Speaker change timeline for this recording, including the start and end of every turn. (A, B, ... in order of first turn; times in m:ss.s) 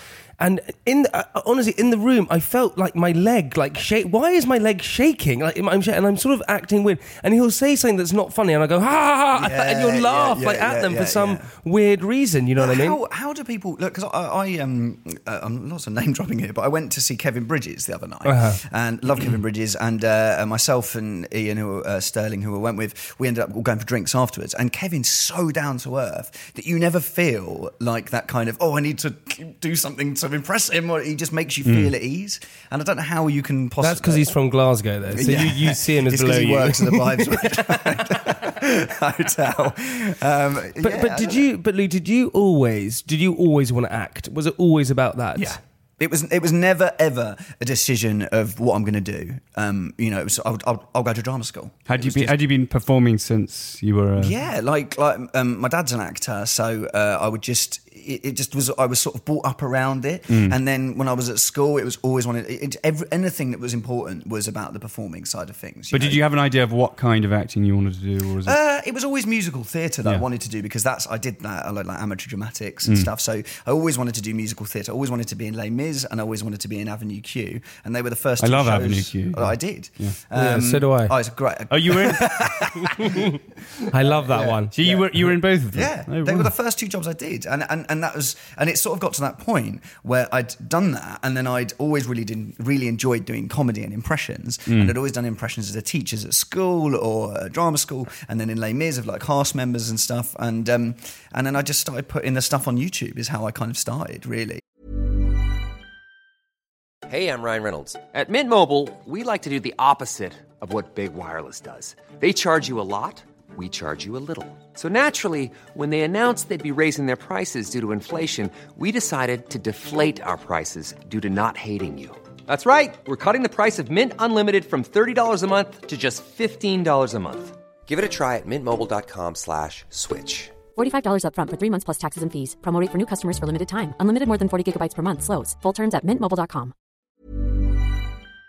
0:00.4-0:13.0 A
0:09.3-0:11.5 B
0:12.6-0:34.3 B
0:18.2-0:18.6 A
0:31.6-0:31.9 C
0:33.8-0:38.2 A
0:35.1-0:41.4 B
0:40.8-0:45.6 A
0:45.4-0:52.4 B
0:51.9-0:54.4 C
0:54.2-1:06.2 B
1:00.3-1:00.6 C
1:05.9-1:08.6 C
1:08.4-1:23.3 B
1:18.4-1:20.1 C
1:20.3-1:21.1 A
1:21.7-1:22.7 C
1:23.0-1:23.3 A
1:23.9-1:24.8 A
1:24.0-1:44.6 B
1:24.7-1:26.5 C
1:34.7-1:34.9 C
1:47.1-2:10.6 D
2:10.7-2:16.7 E